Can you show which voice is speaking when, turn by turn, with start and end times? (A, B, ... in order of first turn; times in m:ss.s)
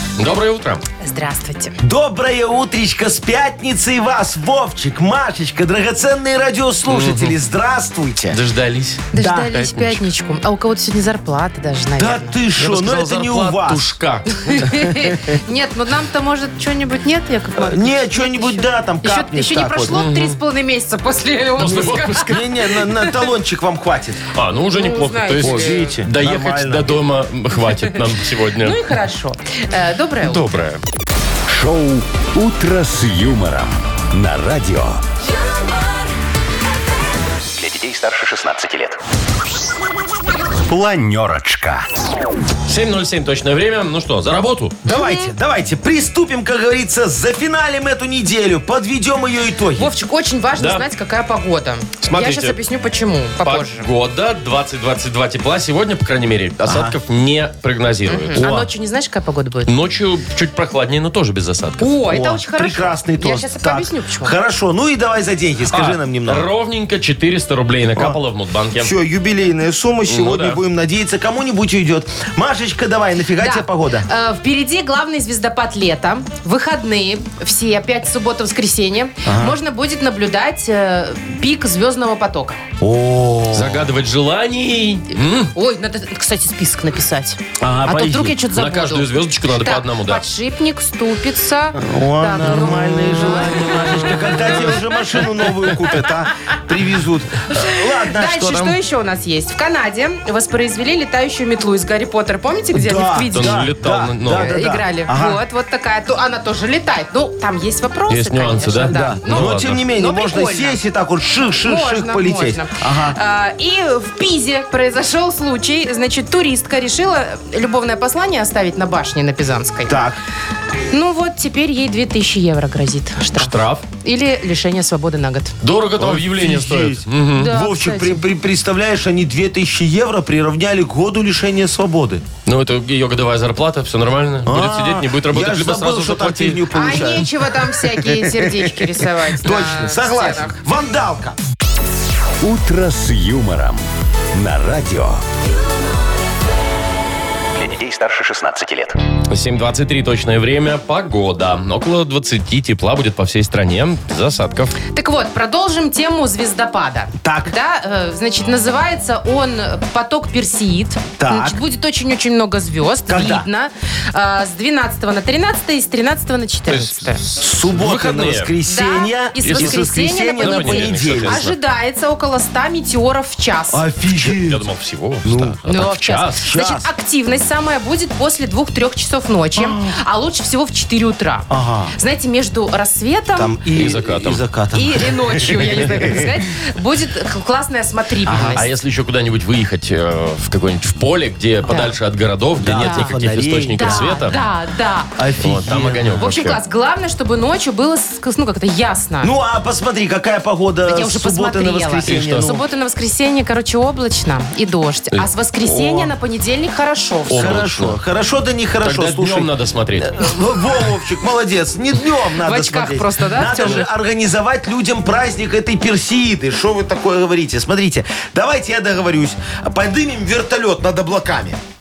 0:00.2-0:00.8 A
0:01.0-0:01.7 B
0:01.8-0:08.4 C
0:06.9-0:07.4 A
0:08.3-0:10.0 A
0:09.1-0:12.4 B
0:09.1-0:09.6 C
0:12.0-0:13.8 C
0:12.6-0:14.7 A
0:14.3-0:22.4 B
0:15.0-0:15.3 C
0:17.6-0:20.0 C
0:19.9-0:20.4 A
0:21.6-0:22.5 A
0:21.6-0:24.2 C
0:24.3-0:28.8 A
0:24.7-0:25.9 B
0:25.4-0:27.0 C
0:27.7-0:28.0 B
0:28.6-0:30.4 B
0:30.2-0:30.8 A
0:31.5-0:35.0 D
0:37.6-0:39.0 E
0:40.6-0:41.9 D
0:42.7-0:44.8 A
0:44.8-0:49.9 C
0:44.9-0:45.3 B
0:49.8-0:53.9 B
0:50.6-0:50.8 A
0:52.0-0:52.6 A
0:53.4-0:58.4 A
0:56.6-0:56.9 C
0:58.1-0:59.7 B
0:58.4-0:58.7 C
0:59.7-1:01.9 A
1:01.8-1:04.4 B
1:02.0-1:06.5 C
1:05.7-1:08.9 A
1:08.8-1:14.1 C
1:10.1-1:10.6 A
1:13.4-1:22.6 B
1:19.2-1:19.6 C
1:22.8-1:23.9 C
1:23.5-1:25.5 A
1:25.1-1:36.0 B
1:27.6-1:28.3 C
1:28.4-1:30.2 A
1:31.8-1:38.8 C
1:37.6-1:43.6 B
1:42.7-1:45.4 C
1:43.3-1:44.6 A
1:44.3-1:50.8 B
1:48.1-1:49.8 A
1:48.9-1:53.2 C
1:51.6-2:00.0 B
1:59.9-2:00.2 C
2:00.9-2:05.5 B
2:03.4-2:03.8 A
2:05.6-2:07.5 A
2:06.0-2:12.2 C
2:07.3-2:08.2 B
2:12.4-2:16.6 A
2:14.4-2:18.7 C
2:16.7-2:20.6 B
2:19.4-2:21.4 C
2:22.4-2:25.2 D
2:27.6-2:29.0 E
2:29.3-2:34.8 A
2:34.9-2:47.2 B
2:37.2-2:37.5 C
2:41.2-2:41.6 C
2:43.1-2:43.5 C
2:46.7-2:48.5 A
2:47.4-2:51.4 C
2:48.6-2:53.8 B
2:49.4-2:51.6 A
2:53.7-2:54.6 C
2:54.1-2:56.4 A
2:55.2-2:55.6 C
2:55.6-3:03.6 B
2:56.4-2:56.9 C
2:59.6-3:00.0 C
3:01.5-3:01.9 C
3:03.4-3:06.3 C
3:03.8-3:04.4 A
3:04.7-3:08.6 B
3:08.2-3:08.6 C
3:08.4-3:14.4 A
3:11.7-3:11.9 B
3:12.6-3:14.3 C
3:12.8-3:13.1 B
3:13.8-3:15.1 B
3:15.2-3:16.3 C
3:15.4-3:16.6 A
3:16.2-3:19.3 B
3:19.2-3:22.6 C
3:20.9-3:27.6 B
3:22.1-3:22.5 A
3:25.6-3:26.0 C
3:27.3-3:28.0 A
3:27.3-3:29.5 C
3:28.8-3:30.3 A
3:30.0-3:41.6 C
3:32.4-3:33.9 B